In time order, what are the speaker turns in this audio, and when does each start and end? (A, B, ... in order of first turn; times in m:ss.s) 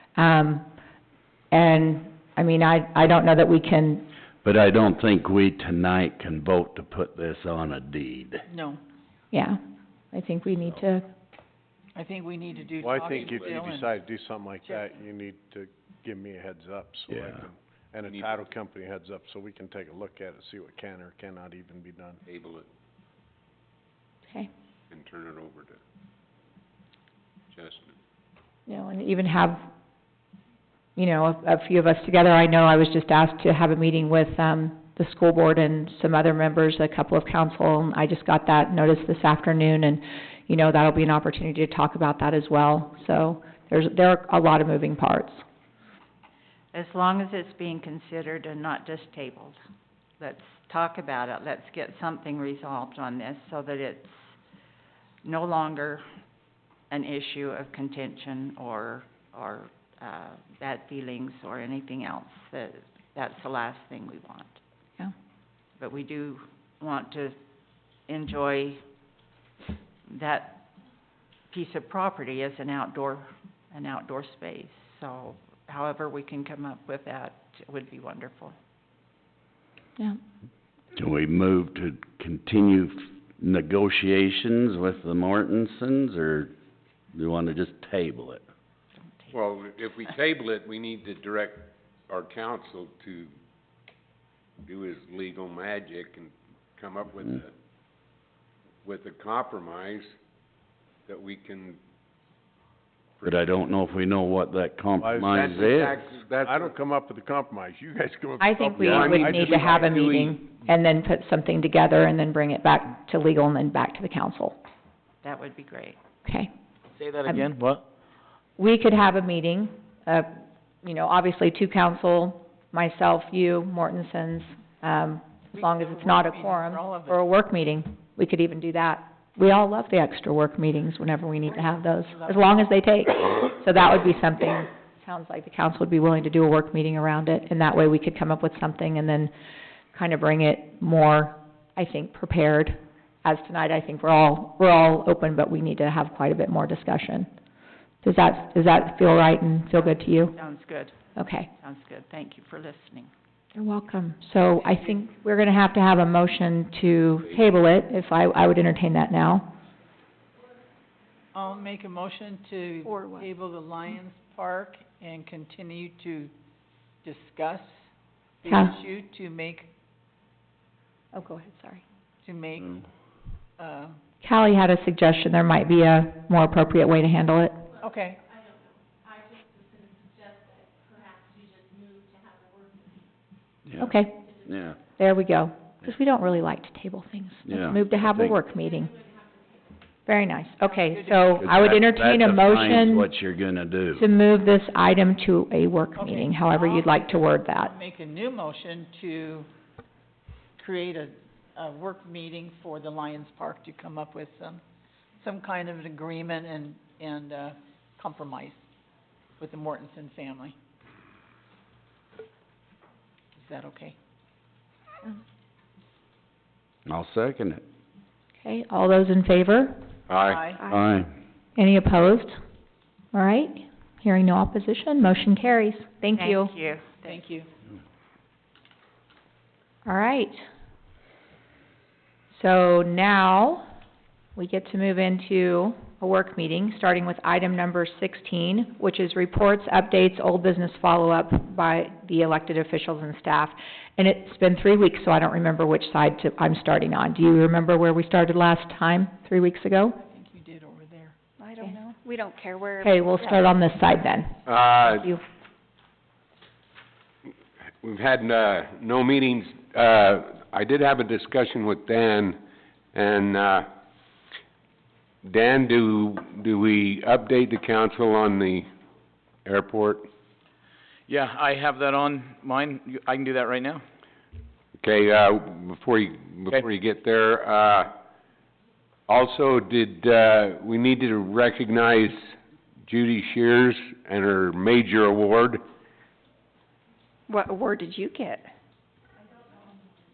0:00.2-0:00.6 A
0:01.5-0:04.0 A
0:04.4-0:08.4 B
0:08.5-0:08.8 C
0:09.3-0:09.6 A
0:10.1-0:11.1 A
0:12.0-0:13.9 C
0:12.8-0:22.2 D
0:12.9-0:13.7 E
0:14.6-0:15.0 C
0:17.1-0:17.4 B
0:18.1-0:18.4 E
0:22.2-0:22.6 E
0:24.9-0:25.8 E
0:27.5-0:27.9 E
0:28.7-0:29.7 A
0:31.0-0:45.4 A
0:46.7-0:49.6 F
0:50.2-0:54.3 F
0:55.2-0:56.1 F
0:56.9-1:04.6 F
1:05.8-1:07.3 F
1:08.1-1:08.8 F
1:10.1-1:10.6 F
1:11.5-1:18.6 F
1:20.9-1:26.5 B
1:27.1-1:28.4 B
1:29.0-1:29.4 F
1:29.3-1:33.3 E
1:34.6-1:37.5 E
1:38.8-1:40.1 E
1:41.1-1:41.8 E
1:43.2-1:46.0 B
1:45.0-1:49.8 D
1:45.3-1:46.7 E
1:48.4-1:54.6 A
1:48.8-1:50.4 E
1:55.2-1:56.0 F
1:56.2-1:56.5 A
1:56.9-1:57.8 G
1:58.6-2:19.3 A
2:05.5-2:07.2 C
2:11.4-2:12.5 C
2:19.9-2:27.3 A
2:28.0-2:30.3 A
2:29.8-2:31.0 F
2:31.2-2:31.5 A
2:31.5-2:33.1 F
2:33.5-2:39.5 A
2:41.3-2:46.3 C
2:42.8-2:43.3 H
2:47.0-2:47.8 C
2:48.4-2:49.7 C
2:48.4-2:48.8 A
2:51.1-2:51.8 A
2:52.2-2:52.8 C
2:53.6-2:54.0 C
2:54.2-2:57.7 A
2:57.8-2:58.2 C
3:03.7-3:04.8 B
3:03.8-3:04.2 A
3:05.0-3:09.0 A
3:07.4-3:08.4 B
3:10.0-3:13.1 A
3:10.7-3:11.5 C
3:11.4-3:14.1 B
3:14.0-3:17.7 A
3:16.0-3:19.5 C
3:20.6-3:24.6 C
3:25.2-3:28.6 C
3:29.4-3:30.5 C
3:33.4-3:33.9 C
3:36.8-3:37.6 B
3:38.4-3:39.8 A
3:40.1-3:40.4 E
3:40.2-3:40.7 C
3:40.7-3:41.1 B
3:41.6-3:42.4 A
3:43.1-3:46.5 A
3:46.2-3:47.2 F
3:47.0-3:47.5 C
3:49.8-3:50.4 A
3:52.3-3:53.7 A
3:54.4-4:10.0 A
4:10.0-4:11.2 C
4:11.4-4:13.4 H
4:12.8-4:15.2 A
4:14.4-4:15.1 E
4:17.8-4:22.4 E
4:22.9-4:23.7 E
4:25.2-4:28.7 E
4:29.4-4:30.1 E
4:31.1-4:33.8 G
4:34.8-4:37.9 E
4:39.1-4:42.3 E
4:42.8-4:45.6 E
4:47.3-4:48.5 H